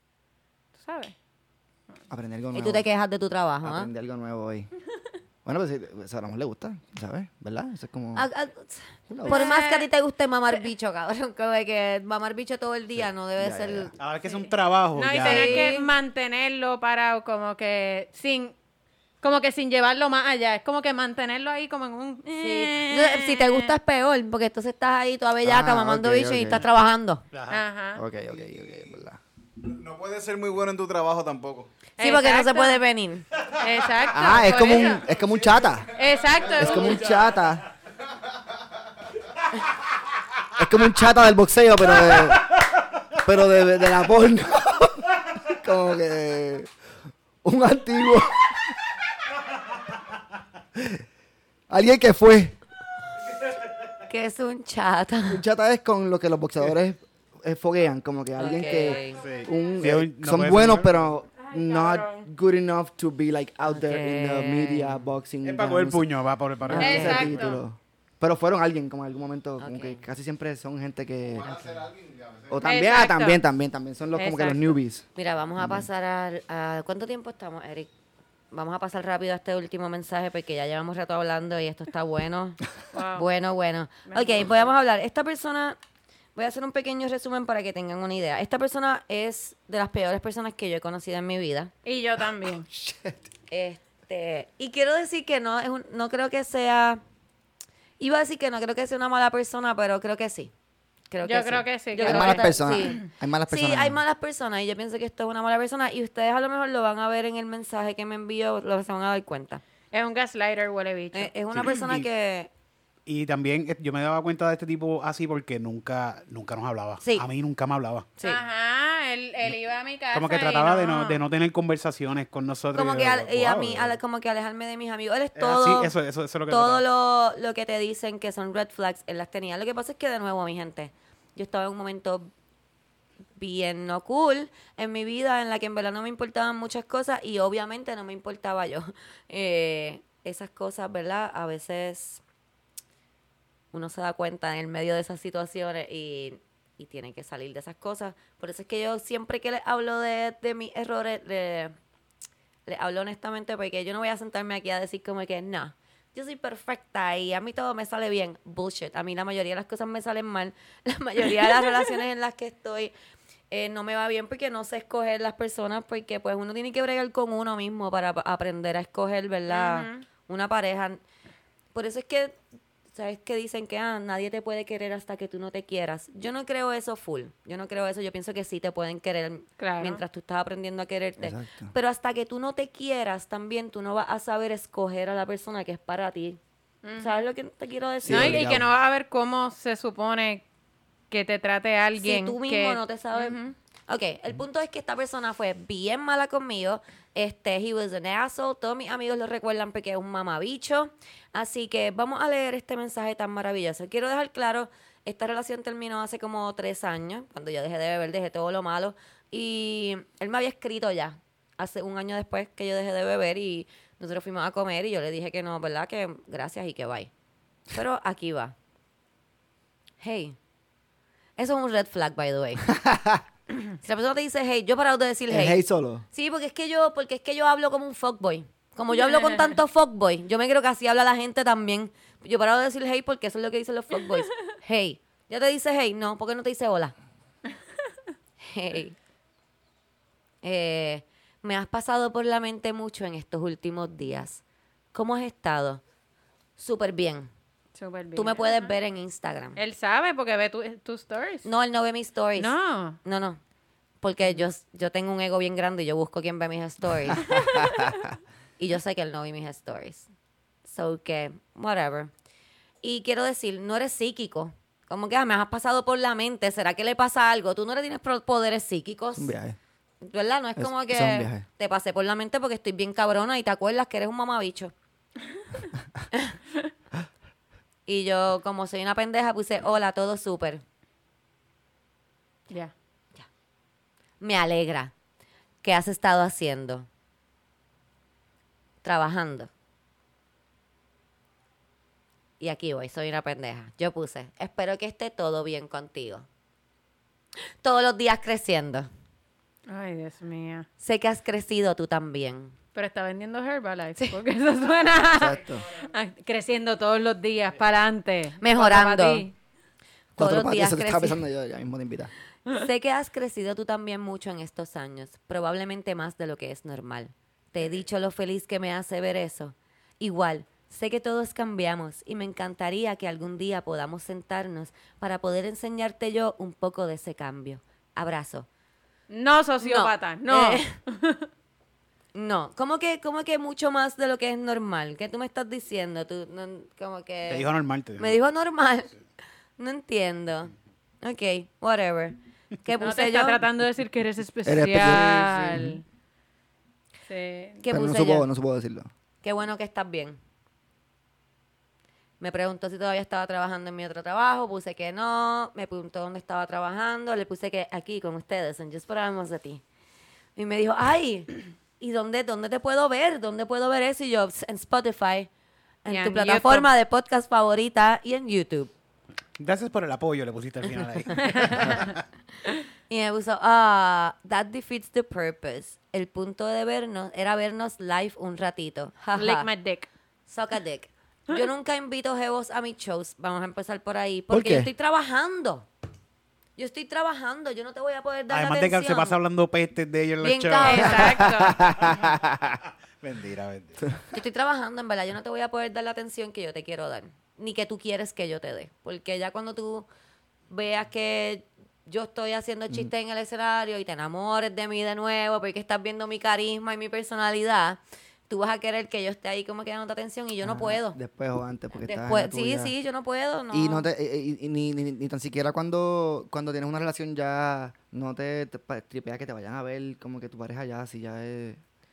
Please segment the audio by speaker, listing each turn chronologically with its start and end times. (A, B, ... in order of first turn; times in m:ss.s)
0:00.8-0:01.1 A
0:02.1-0:02.9 B
0:02.5-0:03.9 C
0:03.6-0:04.7 B
0:05.4-0:08.3 B
0:08.2-0:13.9 C
0:09.1-0:09.4 B
0:09.2-0:09.9 A
0:13.4-0:13.9 B
0:14.0-0:15.7 D
0:14.2-0:18.6 A
0:15.2-0:15.9 C
0:19.2-0:23.7 A
0:22.3-0:27.2 C
0:25.4-0:26.7 B
0:27.3-0:27.6 D
0:27.5-0:28.0 A
0:28.0-0:29.2 B
0:28.4-0:29.0 E
0:29.6-0:31.7 E
0:32.0-0:32.8 A
0:32.0-0:33.2 C
0:33.6-0:35.0 A
0:34.1-0:35.9 B
0:35.1-0:35.8 E
0:36.0-0:37.2 A
0:36.5-0:37.7 B
0:40.6-0:42.5 B
0:43.2-0:46.7 B
0:47.4-0:48.8 B
0:50.8-0:51.0 B
0:51.7-0:52.6 B
0:54.1-0:55.4 C
0:55.3-1:06.1 B
0:58.4-0:59.2 C
0:58.4-0:59.6 A
0:59.2-1:01.1 D
1:01.4-1:02.3 A
1:03.6-1:05.1 C
1:05.4-1:07.5 D
1:06.6-1:11.6 B
1:06.7-1:07.3 C
1:06.8-1:07.6 A
1:09.6-1:10.0 C
1:11.4-1:12.6 E
1:12.5-1:15.1 B
1:12.6-1:13.4 A
1:14.2-1:14.7 A
1:15.2-1:17.9 C
1:15.6-1:15.9 B
1:18.5-1:22.6 C
1:22.9-1:23.3 A
1:23.1-1:25.8 C
1:24.1-1:24.6 A
1:26.4-1:31.7 C
1:31.8-1:32.7 A
1:32.7-1:33.2 B
1:33.5-1:37.0 C
1:38.0-1:40.5 C
1:41.1-1:49.6 C
1:41.2-1:43.1 A
1:42.0-1:44.0 B
1:49.9-1:51.3 A
1:51.1-1:52.5 C
1:51.5-1:52.1 D
1:53.1-1:58.1 D
1:57.0-1:57.3 C
1:58.2-1:58.4 C
1:58.2-2:01.2 A
2:00.1-2:04.0 D
2:02.7-2:05.9 C
2:05.4-2:06.8 D
2:06.5-2:12.3 C
2:13.4-2:22.2 C
2:23.7-2:31.8 C
2:32.7-2:42.9 C
2:43.5-2:51.0 C
2:49.5-2:50.1 A
2:51.7-2:52.4 C
2:52.9-3:06.4 C
2:59.6-3:00.0 A
3:01.2-3:01.7 B
3:06.8-3:07.1 A
3:07.0-3:08.5 C
3:08.0-3:08.7 B
3:08.1-3:10.4 A
3:11.1-3:13.4 A
3:12.0-3:37.1 C
3:37.7-3:38.6 C
3:40.0-3:40.4 C
3:41.4-3:42.7 C
3:42.7-3:43.2 B
3:43.7-3:45.6 C
3:45.3-3:46.0 B
3:46.1-3:57.0 C
3:48.9-3:49.6 A
3:58.4-3:59.0 C
4:00.4-4:04.4 C
4:04.9-4:05.8 C
4:06.6-4:07.3 C
4:07.8-4:08.7 A
4:08.2-4:09.6 C
4:09.6-4:11.5 A
4:11.4-4:13.4 C
4:12.4-4:13.0 A
4:14.0-4:17.4 C
4:17.3-4:17.9 B
4:18.6-4:20.1 C
4:20.7-4:22.1 C
4:22.8-4:29.3 C
4:29.2-4:29.6 B
4:30.0-4:34.7 C
4:30.6-4:31.4 B
4:37.9-4:40.6 C
4:44.2-4:44.9 C
4:45.6-4:46.9 C
4:48.8-4:49.5 C
4:52.4-4:56.3 C
4:57.6-4:58.9 C
4:59.7-5:00.7 A
5:00.8-5:02.6 C
5:02.8-5:09.3 A
5:05.1-5:05.6 B
5:08.4-5:09.3 C
5:10.2-5:11.2 C
5:10.2-5:12.1 B
5:12.5-5:28.5 C
5:29.1-5:31.3 A
5:29.6-5:30.7 C
5:32.1-5:38.9 C
5:37.3-5:38.2 D
5:39.6-5:43.4 C
5:42.8-5:45.8 A
5:44.4-5:45.8 B
5:47.1-5:47.6 A
5:47.6-5:48.3 C
5:47.7-5:48.9 B
5:49.2-5:50.2 C
5:52.2-5:59.6 C
6:00.4-6:05.3 C
6:05.8-6:08.7 C
6:05.9-6:06.7 A
6:09.4-6:12.0 D
6:11.2-6:11.8 A
6:12.9-6:19.5 C
6:19.2-6:19.9 A
6:20.3-6:25.7 C
6:24.3-6:24.7 B
6:26.6-6:29.2 C
6:28.3-6:32.1 D
6:30.2-6:31.3 C
6:30.6-6:31.6 A
6:31.0-6:32.6 B
6:33.0-6:33.8 D
6:34.1-6:39.9 C
6:40.5-6:51.0 C
6:50.4-6:52.7 B
6:51.8-6:53.9 C
6:53.5-7:01.6 B